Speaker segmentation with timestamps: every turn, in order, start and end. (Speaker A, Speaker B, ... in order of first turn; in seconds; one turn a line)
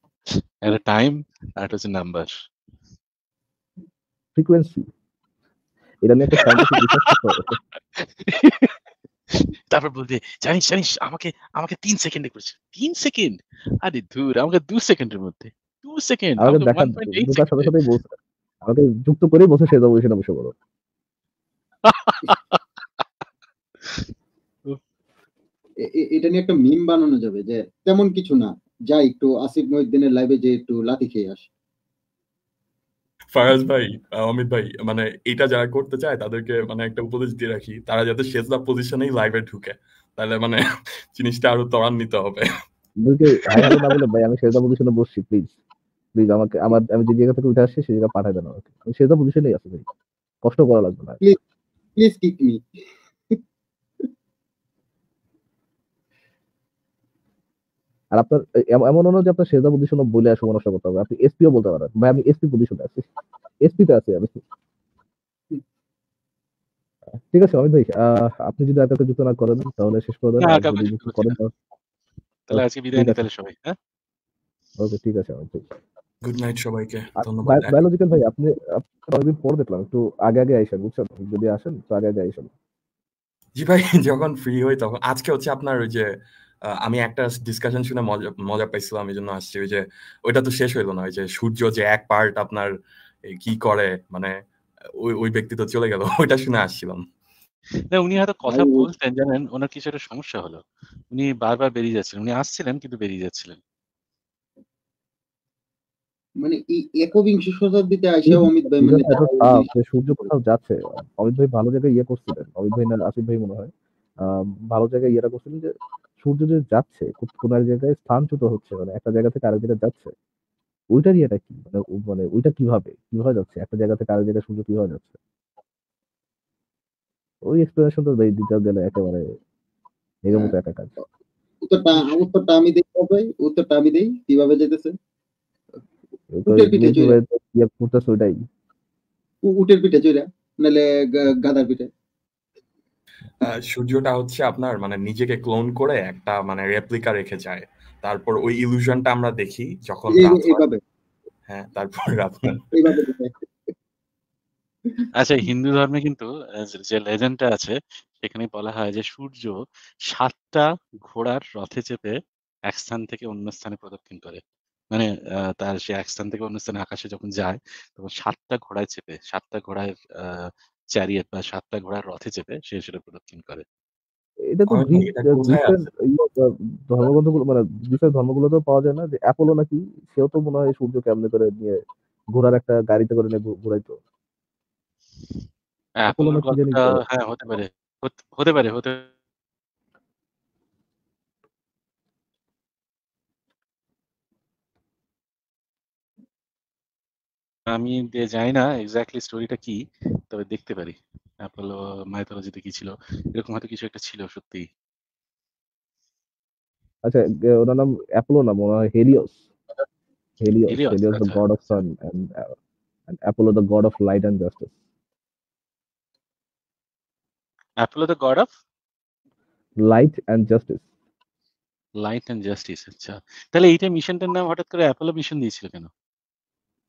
Speaker A: 0.6-2.3
Speaker B: 4.3-4.9
Speaker B: 6.0-7.6
Speaker A: 6.3-7.1
Speaker A: 7.9-8.8
Speaker A: 9.3-17.7
Speaker B: 16.4-20.5
Speaker A: 21.8-22.6
Speaker C: 25.8-31.5
Speaker D: 33.3-40.6
Speaker D: 41.1-42.5
Speaker B: 43.0-45.5
Speaker D: 43.4-43.9
Speaker B: 46.2-49.8
Speaker B: 50.4-51.2
Speaker C: 52.0-52.6
Speaker B: 58.2-63.0
Speaker B: 63.6-64.4
Speaker B: 67.1-71.5
Speaker A: 70.4-71.4
Speaker A: 72.5-73.8
Speaker B: 72.5-73.2
Speaker B: 74.8-75.7
Speaker D: 76.2-77.8
Speaker B: 77.2-82.5
Speaker D: 83.5-86.1
Speaker D: 86.7-92.7
Speaker D: 93.3-94.4
Speaker D: 95.0-97.0
Speaker A: 97.9-103.6
Speaker C: 98.5-98.8
Speaker C: 106.4-109.7
Speaker B: 108.2-113.7
Speaker B: 114.3-120.1
Speaker B: 120.9-125.2
Speaker B: 127.5-129.3
Speaker B: 130.2-130.9
Speaker C: 131.6-134.9
Speaker B: 136.3-138.4
Speaker C: 136.4-137.2
Speaker C: 139.4-141.9
Speaker D: 143.4-150.6
Speaker C: 150.1-150.8
Speaker D: 151.5-152.9
Speaker C: 152.7-153.4
Speaker A: 155.1-159.5
Speaker A: 160.1-162.1
Speaker A: 162.7-164.4
Speaker A: 164.9-173.6
Speaker B: 174.5-184.0
Speaker D: 174.7-175.8
Speaker A: 186.0-189.1
Speaker B: 186.1-187.0
Speaker A: 197.7-204.7
Speaker B: 207.1-209.4
Speaker B: 210.4-212.6
Speaker A: 210.7-211.8
Speaker B: 213.1-214.7
Speaker A: 217.8-218.5
Speaker B: 219.8-220.8
Speaker A: 222.0-225.9